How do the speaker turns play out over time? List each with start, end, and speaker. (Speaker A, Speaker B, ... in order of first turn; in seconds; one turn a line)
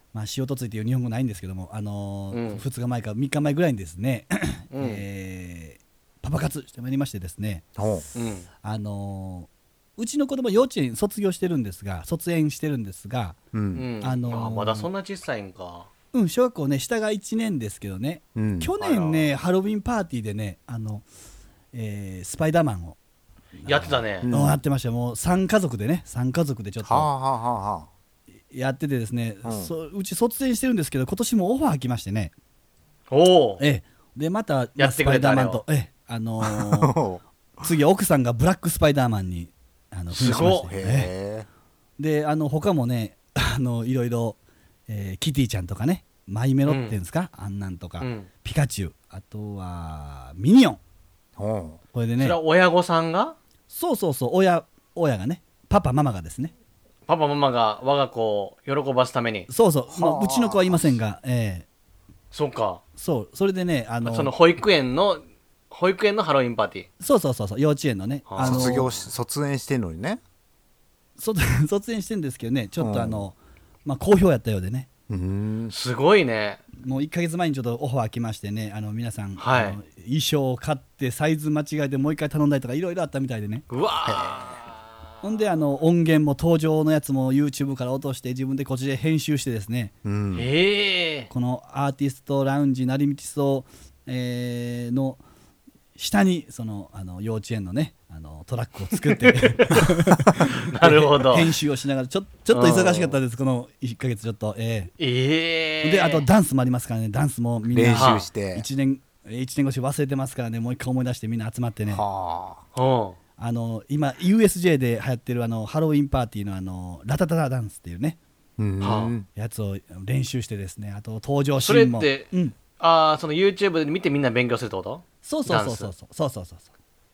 Speaker A: 0.1-7.6
Speaker B: 2.3-2.6
Speaker B: 4.7-5.0
Speaker C: 7.8-8.1
Speaker B: 8.2-8.5
Speaker A: 8.6-13.3
Speaker C: 13.5-13.9
Speaker B: 13.8-15.9
Speaker A: 14.0-14.9
Speaker A: 16.1-21.0
Speaker C: 18.4-18.8
Speaker B: 18.8-19.3
Speaker A: 21.7-23.0
Speaker B: 23.7-24.3
Speaker A: 23.7-27.1
Speaker C: 24.2-24.6
Speaker C: 26.8-27.9
Speaker A: 28.5-32.3
Speaker C: 29.4-29.7
Speaker B: 33.1-33.6
Speaker A: 33.6-36.6
Speaker B: 34.8-35.6
Speaker C: 36.4-37.6
Speaker A: 37.6-41.1
Speaker B: 40.1-40.7
Speaker C: 40.3-41.5
Speaker A: 42.0-44.4
Speaker A: 44.9-50.8
Speaker B: 46.7-47.0
Speaker B: 48.0-48.3
Speaker C: 51.4-51.8
Speaker A: 52.0-52.4
Speaker B: 52.2-53.4
Speaker A: 53.7-56.5
Speaker B: 57.1-59.5
Speaker A: 59.5-61.6
Speaker C: 59.9-61.0
Speaker B: 62.3-62.8
Speaker A: 63.0-64.3
Speaker B: 64.0-66.9
Speaker A: 67.0-68.9
Speaker B: 68.3-68.8
Speaker C: 68.4-70.2
Speaker A: 71.2-73.3
Speaker C: 72.8-73.3
Speaker A: 73.9-74.9
Speaker C: 75.1-75.8
Speaker B: 75.7-76.6
Speaker A: 76.8-83.6
Speaker B: 79.4-79.8
Speaker B: 83.7-84.8
Speaker C: 84.0-84.5
Speaker A: 85.2-89.9
Speaker C: 90.0-90.5
Speaker B: 90.3-91.3
Speaker A: 91.3-95.2
Speaker A: 96.0-100.1
Speaker B: 99.0-99.8
Speaker B: 100.7-101.5
Speaker A: 100.8-104.9
Speaker B: 102.5-103.2
Speaker B: 105.0-106.3
Speaker A: 105.8-112.0
Speaker C: 107.7-108.7
Speaker B: 107.9-108.3
Speaker C: 111.9-112.6
Speaker B: 112.8-113.2
Speaker A: 113.4-118.2
Speaker C: 118.6-119.3
Speaker B: 118.8-119.2
Speaker A: 119.4-122.5
Speaker B: 121.6-125.9
Speaker A: 125.2-126.7